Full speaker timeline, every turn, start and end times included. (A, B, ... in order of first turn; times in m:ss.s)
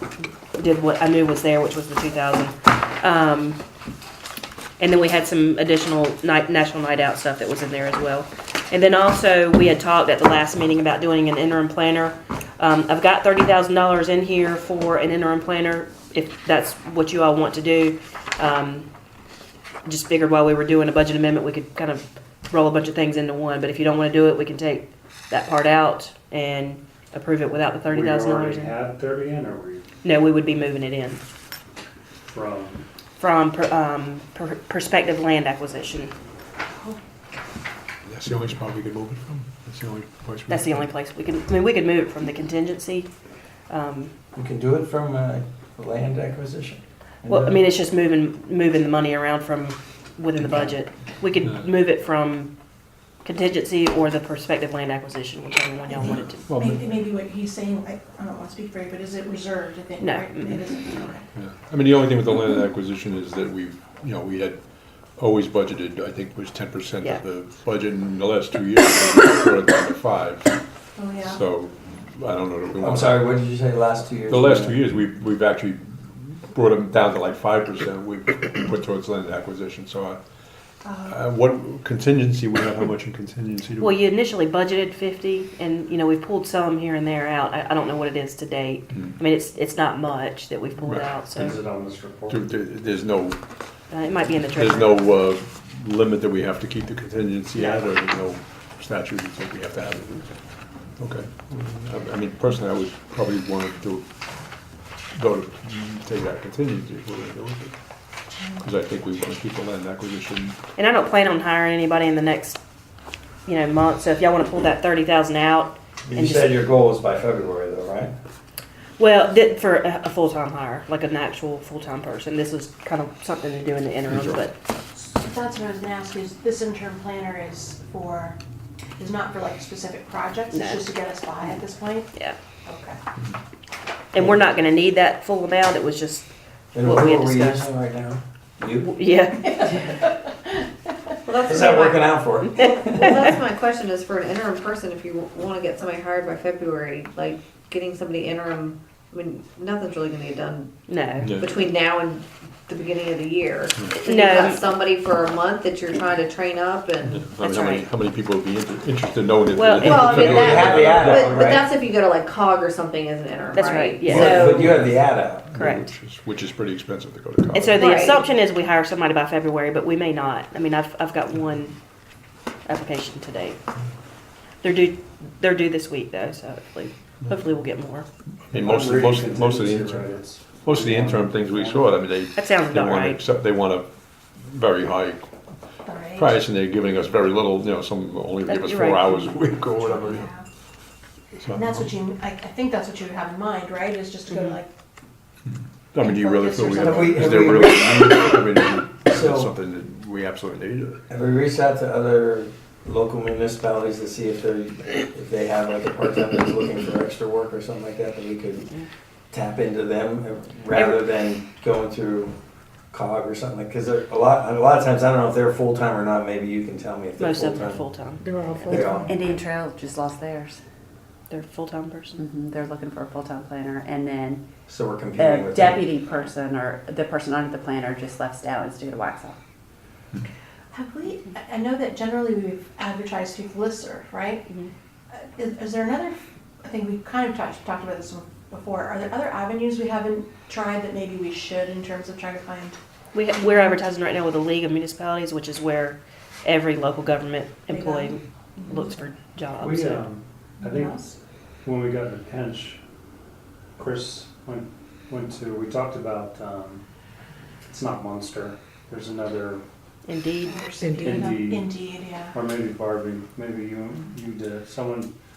0:00.5-0:03.6 A
0:04.8-0:18.9 A
0:19.8-0:28.7 A
0:27.9-0:29.8 B
0:30.0-0:31.2 A
0:32.2-0:32.8 B
0:33.2-0:36.1 A
0:38.0-0:40.9 C
0:40.5-0:43.1 A
0:43.7-0:44.1 A
0:44.3-0:47.6 D
0:47.2-0:52.5 A
0:53.2-0:56.5 A
0:56.1-0:56.9 C
0:56.5-1:01.2 E
1:00.0-1:00.6 A
1:01.3-1:10.6 C
1:10.9-1:11.4 E
1:11.2-1:13.3 C
1:12.8-1:14.8 D
1:14.3-1:20.2 C
1:20.8-1:21.2 E
1:21.1-1:24.0 C
1:23.8-1:31.6 A
1:28.9-1:29.2 C
1:30.8-1:31.6 C
1:31.4-1:32.5 B
1:32.3-1:40.3 C
1:33.9-1:35.0 A
1:37.6-1:37.8 A
1:41.0-1:44.0 C
1:45.1-1:47.8 C
1:48.6-1:50.6 C
1:50.8-1:52.6 A
1:53.4-1:56.6 A
1:56.0-1:58.1 D
1:59.0-2:04.6 A
2:04.1-2:04.4 C
2:04.9-2:08.4 E
2:09.0-2:12.1 E
2:10.5-2:10.9 A
2:12.6-2:13.0 E
2:14.1-2:16.3 A
2:16.7-2:19.0 D
2:16.8-2:17.7 A
2:18.8-2:20.0 A
2:21.2-2:30.8 F
2:21.4-2:23.2 D
2:22.5-2:23.1 A
2:30.9-2:31.3 A
2:31.2-2:31.6 C
2:31.4-2:37.8 F
2:34.0-2:34.6 A
2:37.0-2:41.7 C
2:37.4-2:37.8 A
2:39.5-2:40.1 A
2:39.8-2:44.4 F
2:39.9-2:41.6 D
2:43.5-2:44.5 A
2:44.1-2:45.5 D
2:44.1-2:47.9 C
2:44.1-2:44.6 G
2:45.5-2:45.9 A
2:47.5-2:51.8 A
2:47.8-2:48.2 F
2:52.6-2:53.6 A
2:54.6-2:58.0 A
2:58.5-3:02.0 B
2:58.5-3:05.3 C
3:02.3-3:03.2 A
3:05.8-3:06.4 E
3:06.1-3:10.4 C
3:08.5-3:09.4 A
3:09.8-3:10.4 E
3:11.3-3:11.9 C
3:11.5-3:14.7 E
3:14.3-3:14.6 A
3:15.4-3:21.0 C
3:16.0-3:17.7 E
3:16.8-3:18.4 D
3:19.1-3:19.5 D
3:21.1-3:28.7 D
3:29.3-3:32.3 D
3:30.7-3:31.0 A
3:32.9-3:37.8 D
3:37.2-3:38.8 A
3:38.7-3:39.2 D
3:39.0-3:40.6 G
3:41.3-3:42.2 A
3:42.2-3:44.4 G
3:44.7-3:45.9 D
3:45.2-3:49.4 G
3:50.7-3:54.4 E
3:55.1-4:02.8 E
4:03.1-4:10.0 A
4:07.7-4:08.9 E
4:09.6-4:11.0 B
4:10.6-4:11.1 E
4:11.6-4:12.8 B
4:13.8-4:16.8 B
4:17.7-4:19.6 B
4:20.0-4:20.6 A
4:20.4-4:22.4 E
4:21.0-4:21.7 B
4:22.3-4:25.1 B